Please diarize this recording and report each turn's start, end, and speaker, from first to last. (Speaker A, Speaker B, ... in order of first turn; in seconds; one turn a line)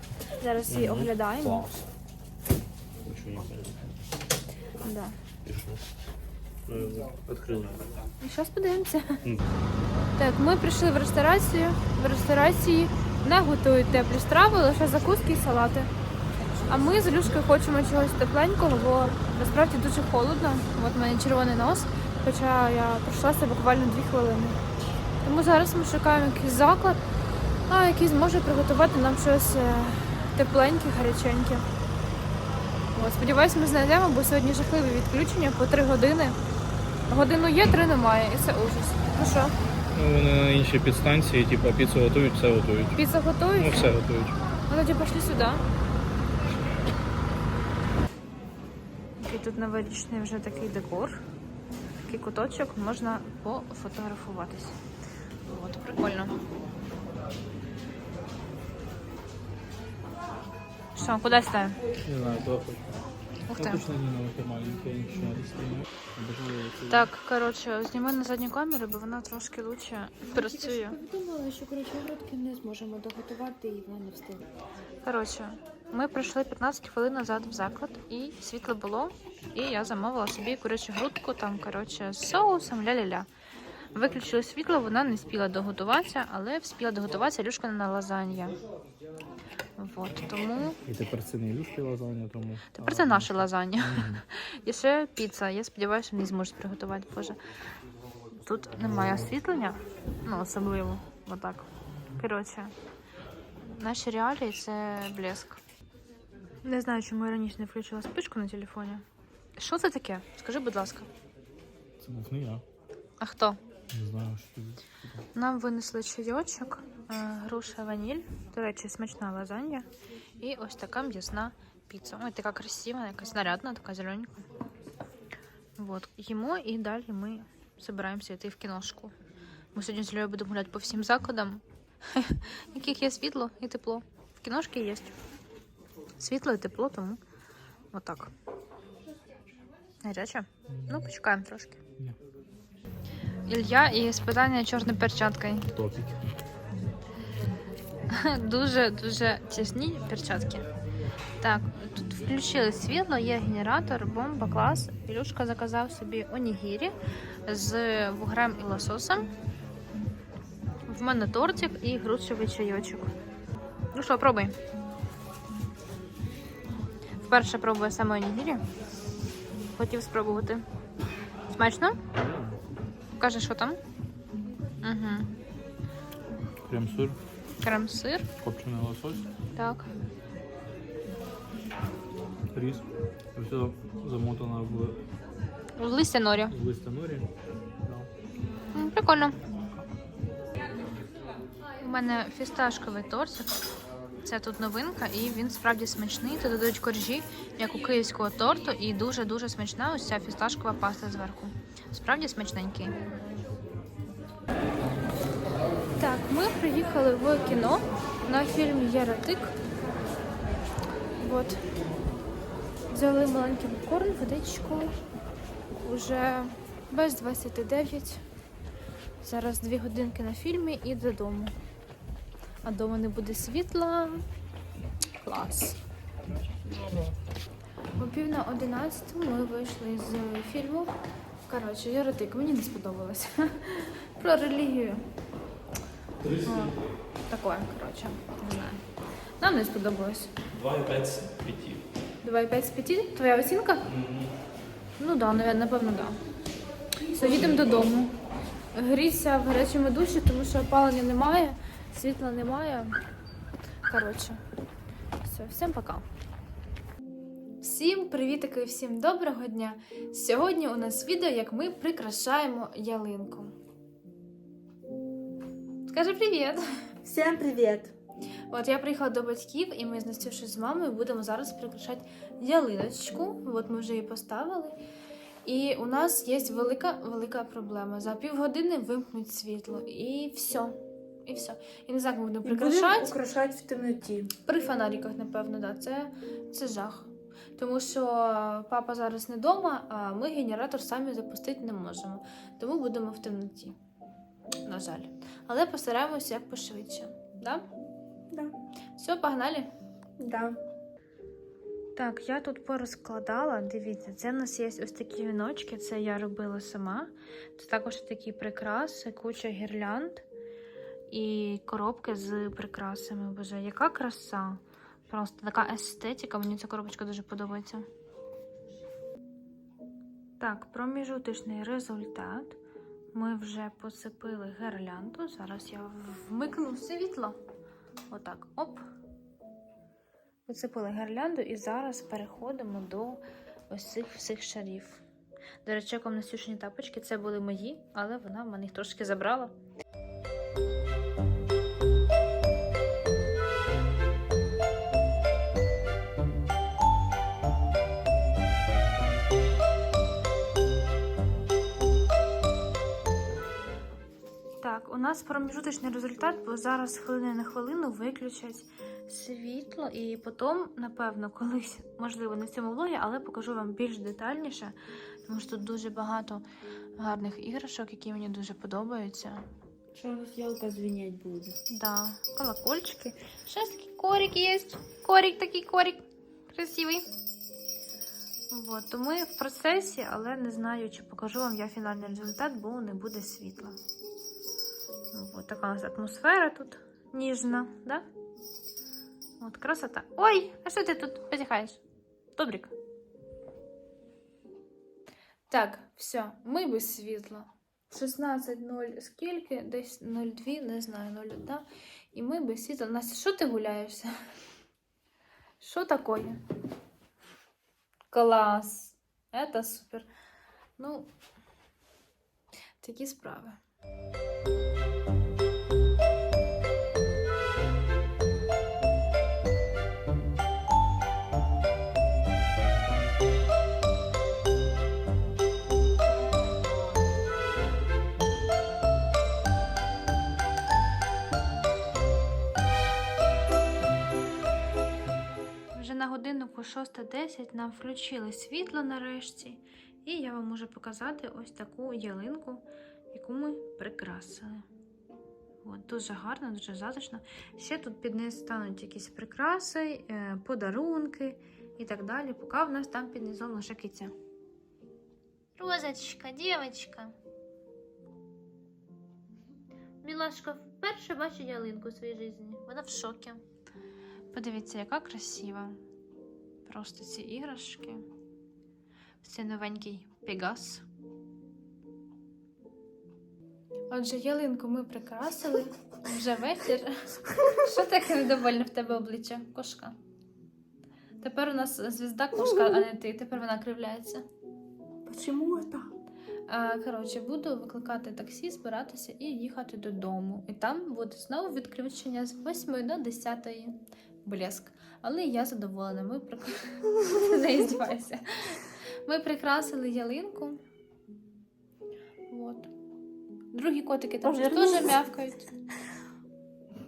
Speaker A: 0.4-1.8
Speaker B: 0.7-1.7
Speaker B: 3.0-3.8
Speaker A: 4.8-5.1
Speaker B: 5.4-5.8
Speaker B: 6.7-7.8
Speaker A: 8.2-9.2
Speaker A: 10.1-15.9
Speaker A: 16.7-24.6
Speaker A: 25.2-27.0
Speaker A: 27.7-31.6
Speaker A: 32.9-36.4
Speaker A: 37.1-39.5
Speaker B: 39.9-43.0
Speaker A: 42.9-43.9
Speaker B: 43.5-44.4
Speaker A: 44.7-45.6
Speaker A: 49.2-51.2
Speaker A: 52.0-54.8
Speaker A: 55.5-56.4
Speaker A: 60.9-61.8
Speaker B: 62.0-63.0
Speaker A: 63.5-63.8
Speaker B: 63.5-67.1
Speaker A: 66.9-71.0
Speaker C: 70.4-74.4
Speaker A: 75.0-83.3
Speaker A: 83.9-88.6
Speaker A: 89.8-90.8
Speaker B: 90.8-94.2
Speaker A: 92.8-97.4
Speaker A: 98.3-102.7
Speaker A: 103.6-105.6
Speaker A: 106.6-109.0
Speaker A: 109.6-111.1
Speaker B: 112.0-112.6
Speaker A: 113.2-113.6
Speaker B: 113.9-115.2
Speaker A: 115.3-119.9
Speaker A: 120.4-124.5
Speaker A: 125.8-129.1
Speaker A: 129.7-135.1
Speaker A: 136.2-137.2
Speaker A: 137.9-138.3
Speaker A: 140.0-141.8
Speaker B: 140.7-141.0
Speaker A: 143.5-145.7
Speaker B: 145.7-146.2
Speaker A: 148.1-150.7
Speaker A: 151.4-156.9
Speaker A: 157.4-159.3
Speaker A: 160.9-163.1
Speaker A: 163.9-164.6
Speaker A: 167.2-168.6
Speaker A: 169.7-170.6
Speaker A: 171.6-172.0
Speaker B: 172.1-172.6
Speaker A: 173.1-173.8
Speaker A: 174.8-175.3
Speaker B: 176.7-177.2
Speaker A: 177.6-178.3
Speaker B: 178.4-179.2
Speaker A: 179.5-179.9
Speaker B: 182.5-185.0
Speaker A: 185.8-186.5
Speaker B: 186.5-188.1
Speaker A: 188.7-189.4
Speaker A: 191.8-193.6
Speaker A: 194.2-203.0
Speaker A: 206.0-209.6
Speaker A: 211.2-211.7
Speaker A: 212.9-215.0
Speaker A: 215.8-218.2
Speaker A: 219.2-221.6
Speaker A: 222.6-224.2
Speaker A: 225.2-225.8
Speaker A: 228.0-230.9
Speaker A: 231.5-235.1
Speaker B: 236.2-236.7
Speaker A: 236.4-236.8
Speaker A: 237.3-238.8
Speaker A: 239.4-240.3
Speaker B: 240.5-241.8
Speaker A: 242.2-243.9
Speaker B: 243.9-244.3
Speaker A: 245.0-246.2
Speaker A: 247.1-248.2
Speaker A: 248.7-252.9
Speaker A: 253.8-254.4
Speaker A: 255.2-256.1
Speaker A: 257.6-263.5
Speaker A: 265.9-266.6
Speaker C: 267.0-267.9
Speaker A: 268.5-274.8
Speaker A: 275.4-283.2
Speaker C: 282.4-284.3
Speaker A: 284.4-293.7
Speaker A: 294.6-297.6
Speaker C: 298.3-298.6
Speaker A: 298.9-299.7
Speaker C: 300.2-300.6
Speaker A: 301.9-310.2
Speaker A: 311.1-317.9
Speaker A: 320.4-322.6
Speaker A: 323.1-327.4
Speaker A: 328.1-328.8
Speaker A: 330.5-335.0
Speaker A: 335.6-339.5
Speaker A: 354.6-364.7
Speaker A: 365.2-366.4
Speaker A: 367.0-369.4
Speaker C: 369.9-371.6
Speaker A: 371.7-377.1
Speaker A: 378.5-383.8
Speaker A: 385.1-388.0
Speaker A: 389.4-391.8
Speaker A: 392.4-392.7
Speaker A: 395.5-404.1
Speaker A: 405.6-406.4
Speaker A: 408.1-410.1
Speaker A: 410.8-411.1
Speaker A: 412.8-413.6
Speaker A: 435.7-444.6
Speaker A: 445.6-454.1
Speaker A: 455.6-457.2
Speaker A: 460.0-463.4
Speaker A: 464.3-465.8
Speaker A: 466.6-468.0
Speaker A: 469.2-470.9
Speaker A: 473.9-480.0
Speaker A: 481.2-484.2
Speaker C: 482.5-482.8
Speaker C: 485.1-485.9
Speaker A: 486.5-500.6
Speaker A: 502.3-502.7
Speaker A: 503.5-505.5
Speaker C: 504.2-505.0